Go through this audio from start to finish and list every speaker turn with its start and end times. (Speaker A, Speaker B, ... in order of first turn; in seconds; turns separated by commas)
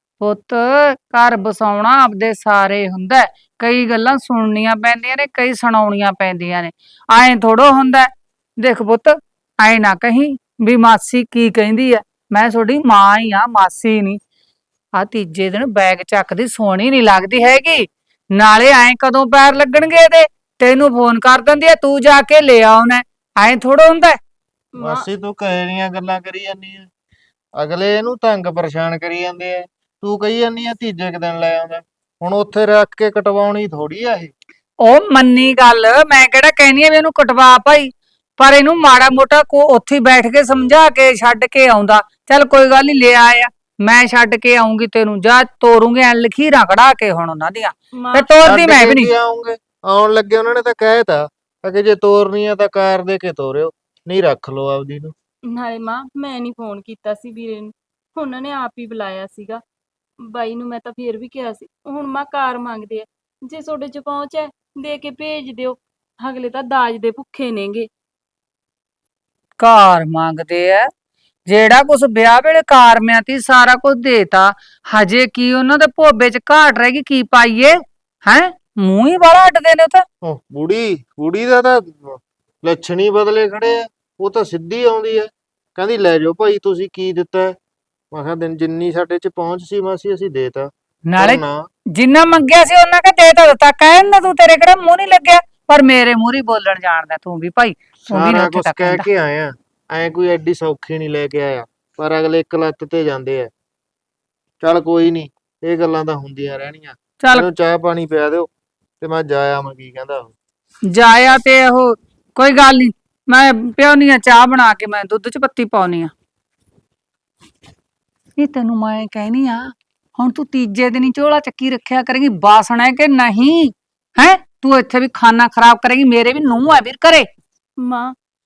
Speaker A: 0.2-14.2, Speaker A: 14.9-24.2, Speaker B: 24.7-25.1, Speaker C: 24.8-26.9, Speaker C: 27.6-34.3, Speaker A: 34.8-49.1, Speaker B: 47.9-48.3, Speaker C: 48.4-55.1, Speaker B: 55.5-59.6, Speaker B: 60.2-67.9, Speaker A: 69.6-70.9, Speaker A: 71.5-80.0, Speaker C: 80.2-87.6, Speaker C: 88.1-91.7, Speaker A: 91.1-91.4, Speaker A: 91.9-99.1, Speaker C: 98.1-103.5, Speaker C: 104.6-108.5, Speaker A: 107.2-107.5, Speaker C: 109.0-110.3, Speaker A: 110.9-116.1, Speaker A: 118.4-127.3, Speaker B: 127.8-128.2